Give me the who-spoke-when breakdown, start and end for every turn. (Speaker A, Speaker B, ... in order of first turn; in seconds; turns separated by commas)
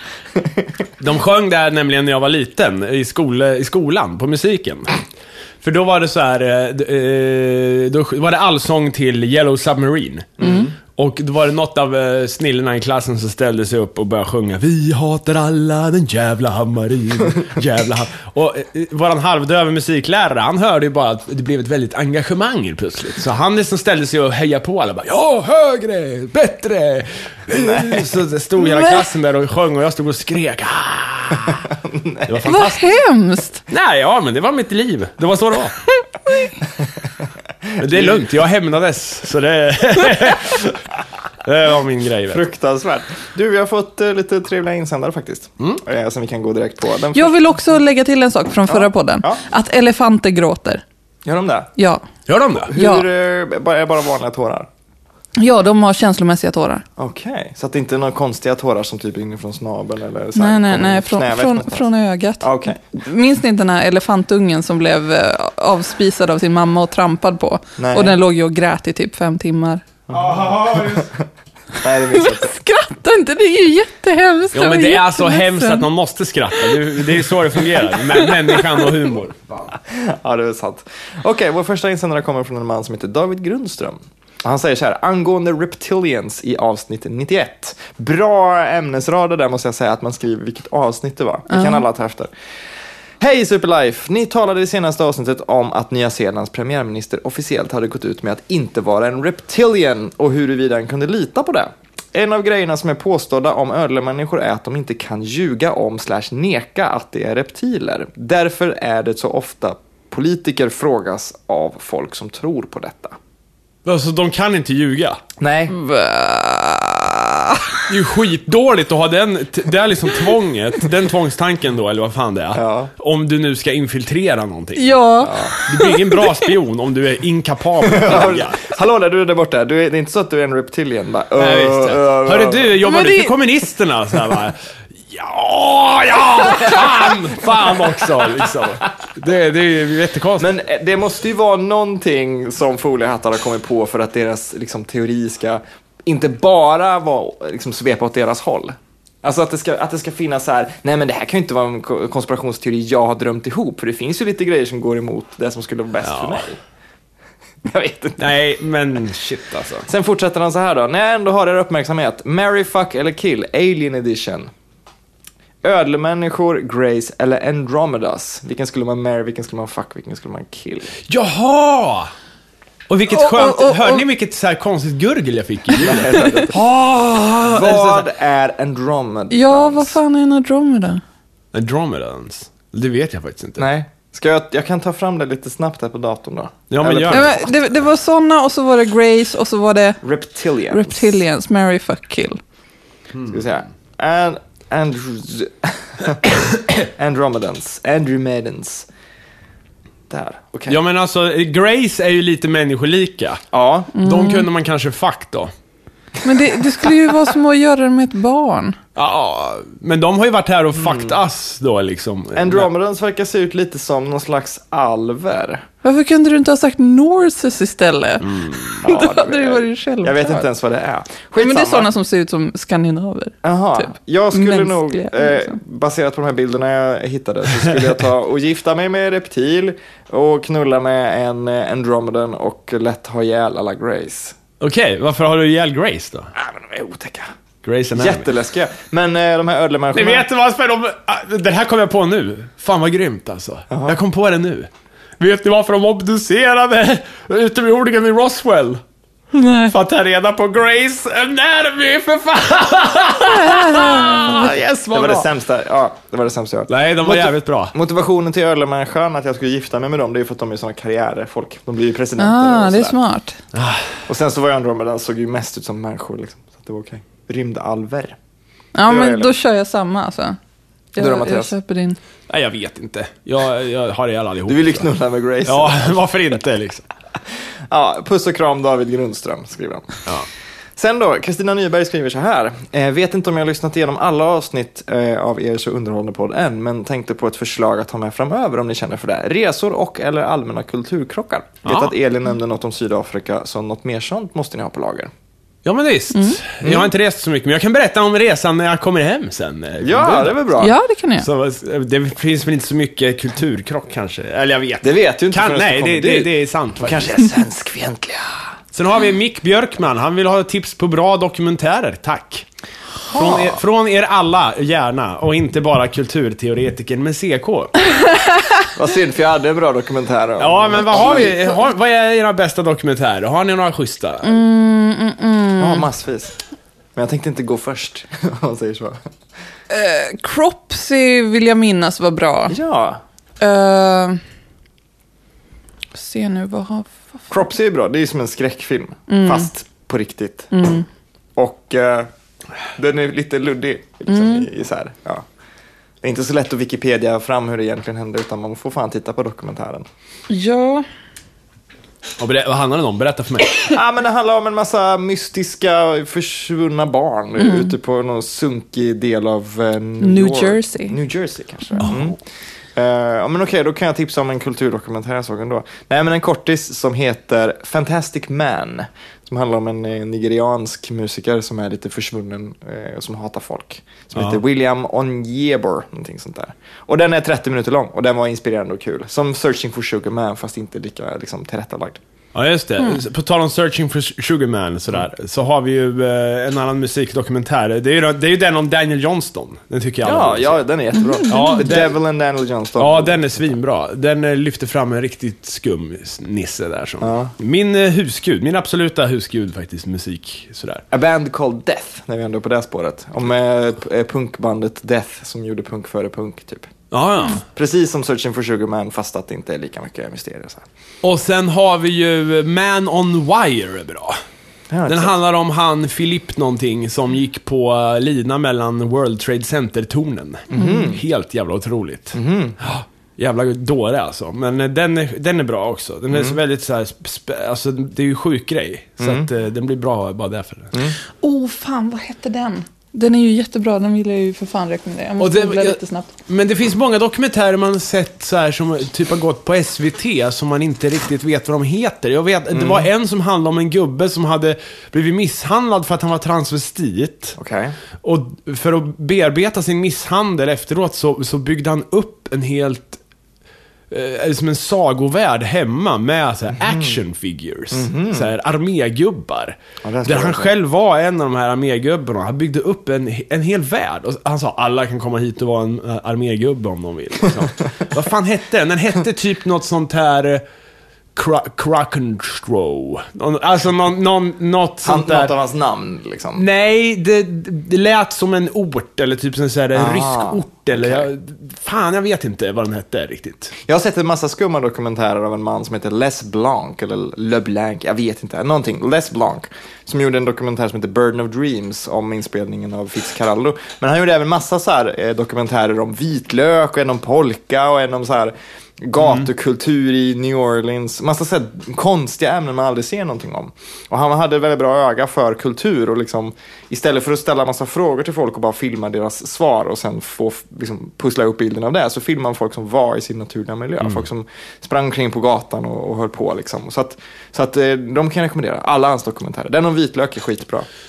Speaker A: 0.3-0.7, Speaker B: 1.0-5.0, Speaker B: 5.6-31.7, Speaker A: 10.4-10.7, Speaker C: 10.4-10.7, Speaker A: 27.5-28.0, Speaker C: 28.7-29.0, Speaker A: 31.8-32.7, Speaker B: 32.3-32.8, Speaker C: 32.5-33.6, Speaker B: 33.7-35.8, Speaker B: 37.8-40.8, Speaker A: 37.8-38.2, Speaker B: 41.4-42.4, Speaker A: 42.3-47.6, Speaker C: 47.1-50.8, Speaker A: 48.7-49.4, Speaker A: 51.2-51.7, Speaker C: 51.8-52.0, Speaker B: 52.3-52.7, Speaker A: 52.6-54.7, Speaker C: 52.7-53.1, Speaker C: 55.4-56.8, Speaker A: 57.0-61.9, Speaker C: 60.4-69.8, Speaker A: 62.4-62.8, Speaker A: 67.8-68.2, Speaker B: 70.1-71.1, Speaker A: 70.1-71.2, Speaker A: 71.8-72.5, Speaker C: 71.9-75.8, Speaker B: 74.5-79.7, Speaker C: 77.9-78.9, Speaker A: 79.8-92.3, Speaker C: 91.5-91.8, Speaker A: 93.2-113.2, Speaker B: 113.8-115.2, Speaker A: 115.4-115.7, Speaker C: 115.7-117.7, Speaker B: 117.9-125.0, Speaker A: 122.5-122.9, Speaker C: 124.8-126.4, Speaker A: 125.2-125.5, Speaker B: 125.6-128.7, Speaker A: 127.8-132.8, Speaker B: 131.4-134.5, Speaker C: 132.8-133.3, Speaker B: 135.1-140.5, Speaker A: 140.4-156.6, Speaker B: 156.0-156.4, Speaker A: 157.6-158.3, Speaker B: 158.2-159.9, Speaker A: 159.8-164.5, Speaker A: 165.6-170.9, Speaker B: 171.1-172.1, Speaker B: 172.9-178.1, Speaker C: 173.1-174.0, Speaker A: 175.8-176.7, Speaker C: 176.2-176.4, Speaker A: 177.4-180.0, Speaker C: 179.3-181.0, Speaker B: 181.5-183.7, Speaker A: 183.6-187.5, Speaker B: 186.7-187.4, Speaker C: 187.1-190.0, Speaker A: 190.0-191.2, Speaker C: 190.7-192.4, Speaker A: 193.2-198.9, Speaker A: 200.1-200.8, Speaker B: 200.7-203.4, Speaker A: 203.5-203.9, Speaker C: 203.9-204.5, Speaker B: 203.9-205.5, Speaker C: 206.2-208.8, Speaker B: 208.9-212.7, Speaker A: 210.7-211.2, Speaker A: 212.3-215.6, Speaker C: 215.8-220.4, Speaker B: 218.3-218.8, Speaker A: 218.8-221.9, Speaker C: 221.4-225.6, Speaker A: 223.4-234.4, Speaker B: 234.6-236.3, Speaker A: 236.3-237.3, Speaker B: 237.6-238.2, Speaker A: 237.9-240.2, Speaker B: 239.9-248.8, Speaker A: 243.7-244.0, Speaker C: 249.3-249.7, Speaker B: 249.7-255.3, Speaker C: 253.2-254.2, Speaker A: 254.2-262.9, Speaker B: 256.7-257.7, Speaker C: 262.2-263.4, Speaker B: 263.5-263.9, Speaker A: 264.1-268.1, Speaker C: 268.7-270.4, Speaker A: 268.9-269.3, Speaker C: 270.9-272.0, Speaker A: 271.0-271.5, Speaker B: 272.3-274.9, Speaker A: 274.5-276.0, Speaker B: 275.4-276.8, Speaker A: 277.7-280.1, Speaker A: 280.8-295.1, Speaker B: 291.6-291.9, Speaker B: 295.6-300.4, Speaker C: 296.1-296.4, Speaker A: 296.6-296.9, Speaker A: 299.8-300.7, Speaker C: 300.6-301.3, Speaker B: 301.2-307.3, Speaker A: 304.8-308.5, Speaker B: 308.7-312.4, Speaker B: 313.1-317.9, Speaker A: 313.1-313.5, Speaker A: 318.7-321.6, Speaker B: 320.4-324.3, Speaker C: 324.2-325.9, Speaker A: 325.6-326.4, Speaker A: 326.9-329.0, Speaker C: 329.7-332.6, Speaker A: 332.5-333.0, Speaker C: 333.4-334.2, Speaker C: 335.9-337.1, Speaker A: 337.3-340.5, Speaker C: 339.1-339.5, Speaker C: 340.5-340.8, Speaker A: 341.4-342.1, Speaker A: 342.8-345.2, Speaker C: 344.1-344.5, Speaker A: 346.0-349.9, Speaker C: 350.3-350.8, Speaker B: 352.2-353.7, Speaker A: 353.7-362.2, Speaker C: 357.4-357.7, Speaker C: 360.0-360.9, Speaker A: 362.7-382.0, Speaker B: 374.1-374.4, Speaker B: 382.3-390.6, Speaker A: 390.0-393.5, Speaker B: 391.3-392.0, Speaker B: 392.8-400.8, Speaker A: 397.0-397.3, Speaker A: 400.9-406.7, Speaker B: 406.9-407.4, Speaker A: 407.5-410.6, Speaker B: 411.0-414.2, Speaker A: 414.7-415.1, Speaker B: 414.9-430.7, Speaker A: 420.5-421.0, Speaker C: 420.5-420.9, Speaker A: 422.1-422.6, Speaker A: 426.1-426.4, Speaker A: 429.0-429.3, Speaker C: 431.2-436.1, Speaker B: 435.2-447.4, Speaker A: 442.5-442.9, Speaker A: 447.4-447.8, Speaker B: 448.0-453.0, Speaker B: 453.9-470.4, Speaker A: 456.6-457.0, Speaker A: 457.7-458.3, Speaker A: 459.8-460.5, Speaker B: 471.1-475.3, Speaker A: 474.8-476.4, Speaker B: 476.3-483.5, Speaker A: 479.7-481.1, Speaker A: 483.6-520.7